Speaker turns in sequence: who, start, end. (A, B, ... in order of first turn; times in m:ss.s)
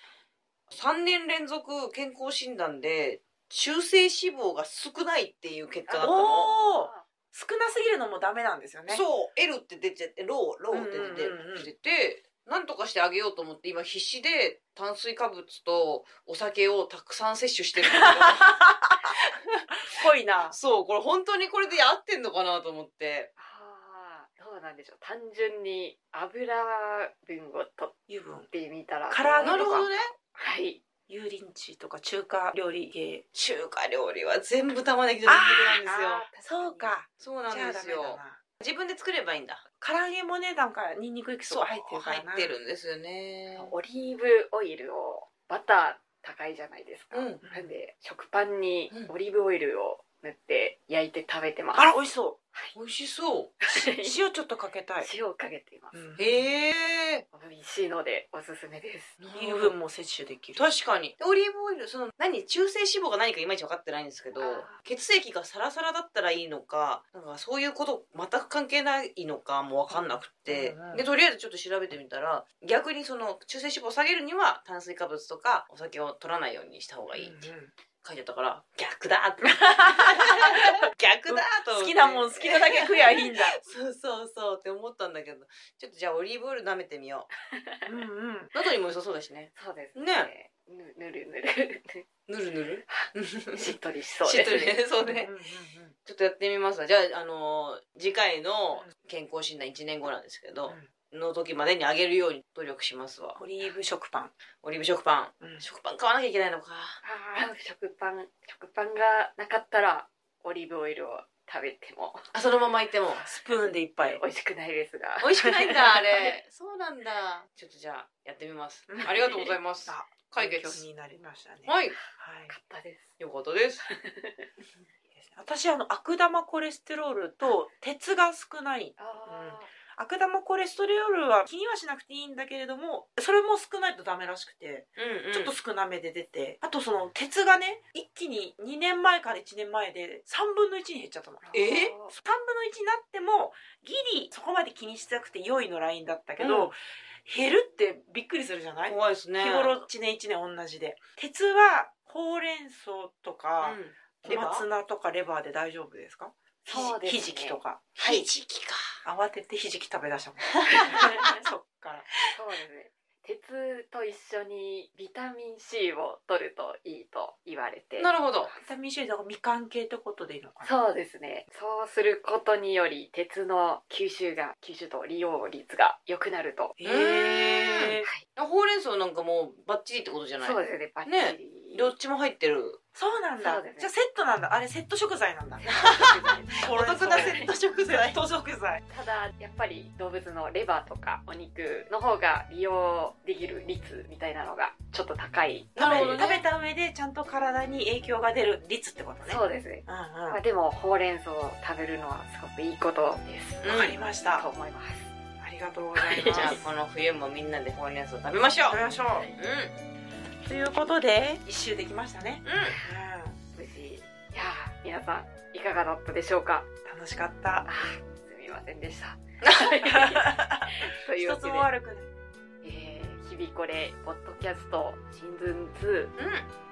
0:00.7-0:06.5 A
0:05.9-0:07.0 B
0:05.9-0:09.0 C
0:08.9-0:18.5 A
0:10.7-0:11.7 C
0:17.8-0:19.1 C
0:19.2-0:19.6 A
0:19.9-0:20.6 C
0:20.5-0:23.3 A
0:23.4-0:28.0 B
0:28.1-0:28.5 C
0:28.5-0:30.8 B
0:29.1-0:29.9 C
0:29.4-0:30.1 A
0:31.1-0:33.2 C
0:33.4-0:36.3 A
0:35.3-0:38.4 C
0:36.0-0:37.0 B
0:37.2-0:39.6 A
0:39.8-0:42.5 C
0:41.5-0:43.7 A
0:43.6-0:51.9 B
0:47.1-0:47.4 A
0:47.4-0:47.7 C
0:51.8-0:52.4 C
0:52.8-0:53.6 A
0:53.6-0:54.2 B
0:53.8-0:55.1 C
0:55.0-0:56.0 B
0:55.9-0:56.4 C
0:56.2-0:57.2 A
0:57.3-0:59.2 B
0:59.2-0:59.7 A
0:59.4-1:00.7 C
1:00.6-1:17.5 A
1:04.4-1:04.8 B
1:09.9-1:11.0 C
1:17.1-1:17.7 C
1:18.0-1:27.3 A
1:19.5-1:23.6 C
1:27.5-1:27.9 B
1:27.9-1:28.5 C
1:28.5-1:30.3 A
1:29.6-1:32.1 B
1:32.3-1:35.3 A
1:32.9-1:34.8 B
1:35.0-1:35.9 C
1:36.0-1:43.4 A
1:43.4-1:44.3 C
1:44.6-1:47.0 A
1:47.0-1:52.3 B
1:52.3-1:53.3 A
1:53.2-1:54.2 C
1:54.0-1:56.3 B
1:55.2-2:00.9 A
1:58.9-1:59.2 C
1:59.1-1:59.5 B
1:59.9-2:02.5 C
2:01.7-2:02.0 A
2:02.5-2:03.1 B
2:03.2-2:03.9 A
2:03.9-2:04.5 B
2:05.2-2:38.2 C
2:09.0-2:09.7 B
2:15.0-2:15.6 A
2:21.5-2:22.1 B
2:21.5-2:21.9 A
2:26.4-2:26.7 A
2:28.9-2:29.8 A
2:33.6-2:34.7 A
2:36.6-2:38.2 B
2:38.0-2:39.0 A
2:39.0-2:42.1 C
2:40.6-2:41.1 A
2:40.7-2:41.4 B
2:42.3-2:48.6 B
2:48.0-2:48.5 A
2:48.6-2:50.7 C
2:50.6-2:56.8 B
2:56.8-2:58.1 C
2:56.8-3:02.8 A
3:00.4-3:01.9 B
3:03.0-3:05.8 C
3:03.4-3:03.9 B
3:05.6-3:07.5 B
3:05.7-3:08.2 A
3:06.5-3:08.8 C
3:08.9-3:16.0 B
3:15.8-3:16.4 A
3:15.8-3:20.4 C
3:19.2-3:25.1 B
3:23.6-3:24.0 A
3:23.6-3:24.5 C
3:25.4-3:26.7 C
3:26.0-3:26.6 B
3:26.2-3:28.8 A
3:28.7-3:29.3 C
3:29.4-3:29.8 A
3:30.5-3:33.4 C
3:32.4-3:32.8 A
3:33.6-3:36.7 B
3:36.8-3:37.7 C
3:37.7-3:41.7 B
3:39.4-3:39.8 A
3:39.9-3:42.1 C
3:42.6-3:46.2 B
3:46.2-3:46.5 A